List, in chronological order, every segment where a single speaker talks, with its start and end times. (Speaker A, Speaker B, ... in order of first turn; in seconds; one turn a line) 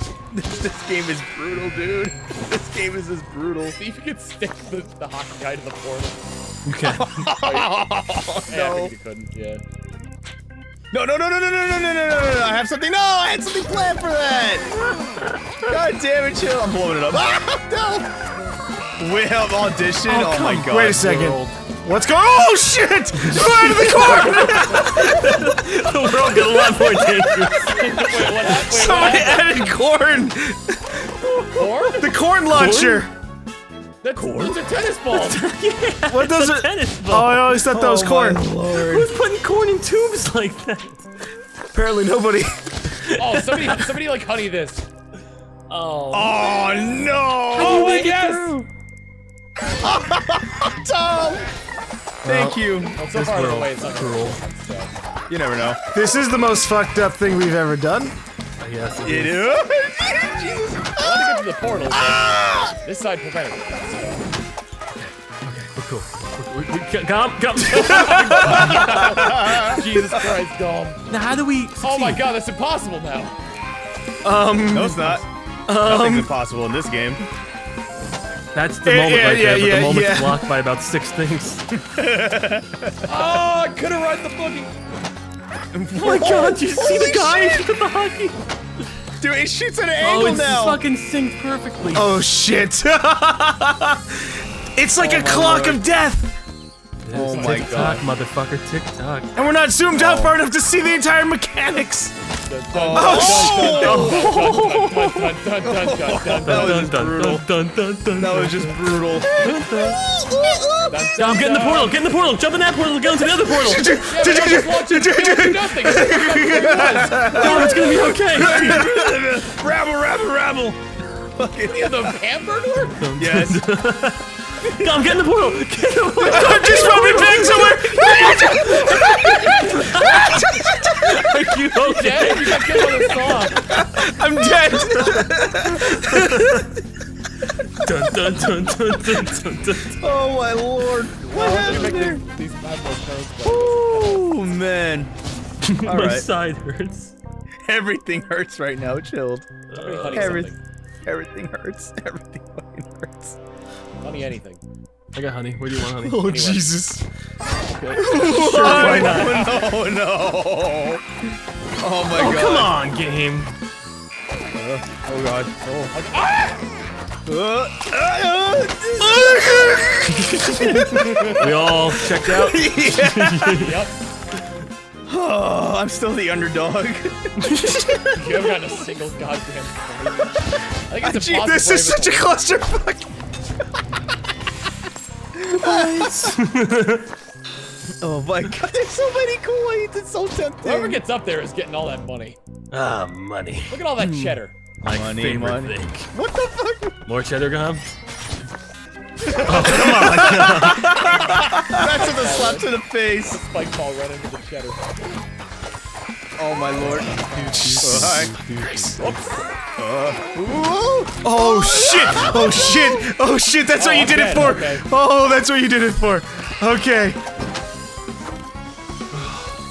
Speaker A: 0.3-3.8
Speaker B: 3.8-6.3
Speaker C: 6.7-7.3
Speaker A: 6.8-8.9
Speaker B: 7.3-7.7
Speaker B: 8.5-9.6
Speaker A: 10.9-14.7
Speaker C: 14.9-15.7
Speaker A: 15.6-18.1
Speaker A: 19.0-21.0
Speaker C: 20.0-21.6
Speaker D: 20.7-25.5
Speaker C: 23.3-28.2
Speaker B: 24.4-25.0
Speaker A: 27.6-28.1
Speaker B: 27.6-29.6
Speaker D: 28.4-33.1
Speaker B: 31.5-32.1
Speaker C: 32.5-33.1
Speaker B: 34.0-35.5
Speaker A: 34.2-34.6
Speaker C: 35.1-37.5
Speaker D: 36.1-38.4
Speaker A: 37.7-39.1
Speaker C: 38.7-41.0
Speaker D: 41.7-42.8
Speaker C: 43.1-43.8
Speaker B: 43.2-44.9
Speaker C: 45.7-46.5
Speaker A: 46.1-48.1
Speaker C: 47.5-48.7
Speaker B: 47.6-48.6
Speaker A: 49.8-51.5
Speaker A: 52.2-53.0
Speaker C: 52.2-54.4
Speaker B: 53.0-54.9
Speaker A: 55.3-55.8
Speaker D: 55.9-58.1
Speaker C: 58.6-59.5
Speaker A: 59.0-61.3
Speaker B: 61.0-64.3
Speaker A: 61.9-62.7
Speaker C: 65.0-68.9
Speaker B: 67.6-71.0
Speaker D: 68.0-68.8
Speaker A: 68.7-70.2
Speaker C: 71.1-72.2
Speaker B: 71.8-73.4
Speaker D: 74.2-76.3
Speaker A: 74.7-75.2
Speaker A: 75.8-77.2
Speaker C: 78.5-81.6
Speaker D: 78.8-80.4
Speaker A: 81.8-83.4
Speaker B: 83.1-84.7
Speaker A: 85.7-87.7
Speaker C: 86.0-88.4
Speaker A: 89.2-90.8
Speaker C: 90.0-92.1
Speaker D: 91.9-96.3
Speaker A: 95.0-95.8
Speaker C: 97.0-99.3
Speaker A: 97.1-98.0
Speaker B: 97.3-98.0
Speaker D: 99.4-102.1
Speaker A: 99.9-100.4
Speaker B: 102.5-106.9
Speaker A: 102.7-104.8
Speaker D: 102.9-104.0
Speaker C: 103.6-105.2
Speaker A: 105.6-107.5
Speaker C: 106.4-110.0
Speaker A: 108.2-111.1
Speaker B: 110.9-112.0
Speaker C: 111.2-114.0
Speaker D: 113.5-119.2
Speaker B: 114.0-117.3
Speaker A: 116.6-122.2
Speaker C: 117.3-118.9
Speaker B: 121.7-123.1
Speaker C: 122.9-133.2
Speaker A: 123.2-123.6
Speaker A: 124.6-125.0
Speaker D: 126.2-131.4
Speaker B: 128.9-130.3
Speaker B: 131.8-133.6
Speaker D: 132.7-136.7
Speaker C: 134.9-135.3
Speaker C: 135.8-136.7
Speaker C: 137.7-140.3
Speaker A: 140.0-142.2
Speaker B: 141.3-144.3
Speaker A: 143.4-145.1
Speaker C: 145.6-147.2
Speaker A: 145.8-146.3
Speaker A: 147.6-149.5
Speaker C: 149.7-150.5
Speaker B: 149.7-150.6
Speaker A: 150.1-150.5
Speaker A: 151.1-153.4
Speaker B: 154.0-154.6
Speaker C: 155.1-156.6
Speaker D: 156.0-157.0
Speaker B: 156.2-156.6
Speaker C: 157.8-159.7
Speaker D: 157.9-159.5
Speaker A: 158.0-161.1
Speaker A: 161.8-162.7
Speaker C: 162.1-163.5
Speaker A: 164.6-165.9
Speaker B: 165.9-166.6
Speaker A: 167.2-171.5
Speaker D: 169.0-171.3
Speaker C: 170.2-173.8
Speaker D: 171.8-173.7
Speaker B: 173.5-174.0
Speaker A: 175.1-177.5
Speaker C: 177.4-178.5
Speaker B: 178.1-182.6
Speaker A: 181.0-181.4
Speaker D: 181.2-183.1
Speaker A: 185.3-186.4
Speaker C: 185.6-187.1
Speaker A: 188.0-191.0
Speaker B: 190.6-192.4
Speaker C: 192.7-196.1
Speaker B: 193.7-194.6
Speaker A: 194.9-197.0
Speaker C: 197.1-197.9
Speaker C: 199.3-201.1
Speaker A: 199.4-203.4
Speaker D: 199.8-201.9
Speaker B: 201.0-205.0
Speaker A: 206.4-207.2
Speaker D: 207.4-208.9
Speaker C: 207.4-209.0
Speaker A: 207.7-208.3
Speaker B: 209.0-209.5
Speaker A: 209.8-213.0
Speaker D: 211.2-217.2
Speaker B: 213.7-214.9
Speaker C: 219.2-219.5